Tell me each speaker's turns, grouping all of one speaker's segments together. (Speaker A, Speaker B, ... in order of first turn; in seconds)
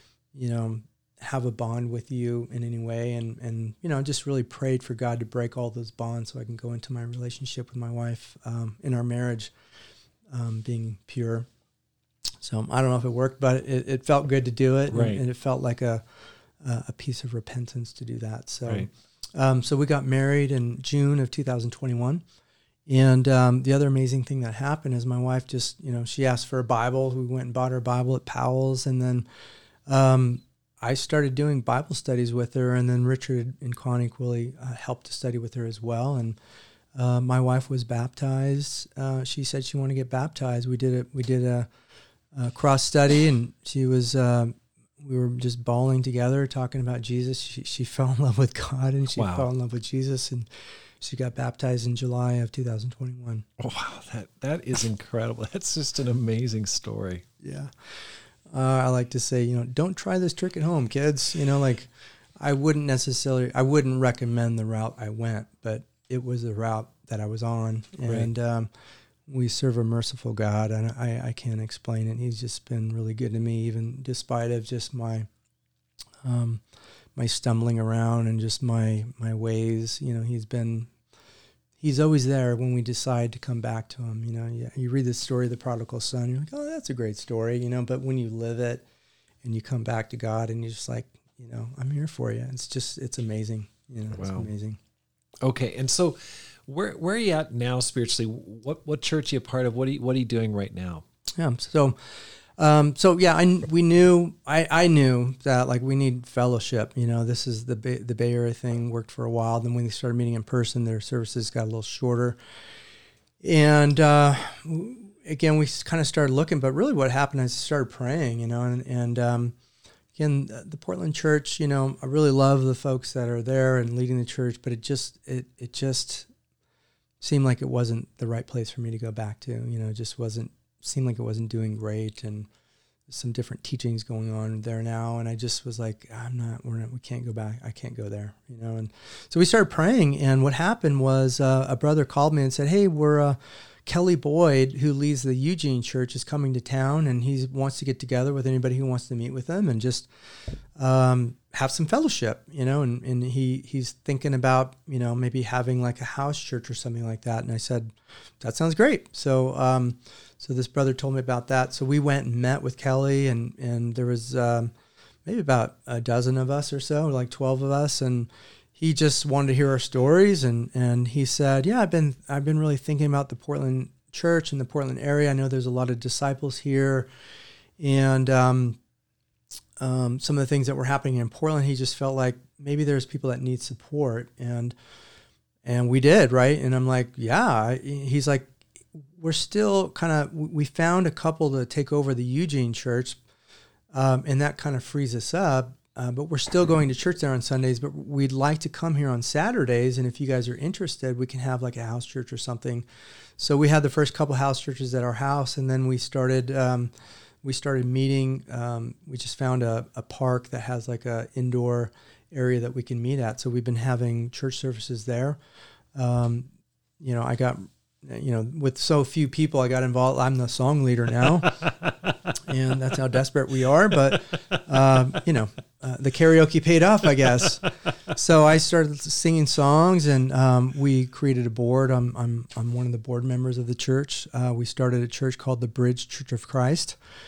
Speaker A: 0.3-9.5, 10.3-11.5, 12.4-16.0, 16.6-22.2, 22.9-29.2, 29.9-36.4, 36.9-41.7, 42.3-53.4, 57.4-68.7, 69.3-75.3, 76.2-76.6, 77.1-80.9, 81.8-88.8, 89.4-94.8, 101.4-112.4, 113.4-119.5, 120.1-126.3, 127.2-132.5, 133.1-150.1, 150.7-164.7, 165.2-177.1, 177.8-178.8, 179.8-184.7, 185.6-193.2, 193.9-202.8, 203.4-215.4, 215.9-221.7, 222.4-237.0
Speaker B: 14.9-15.2, 49.1-49.5, 53.6-57.2, 68.0-68.3, 94.1-94.5, 95.4-101.0, 221.7-222.1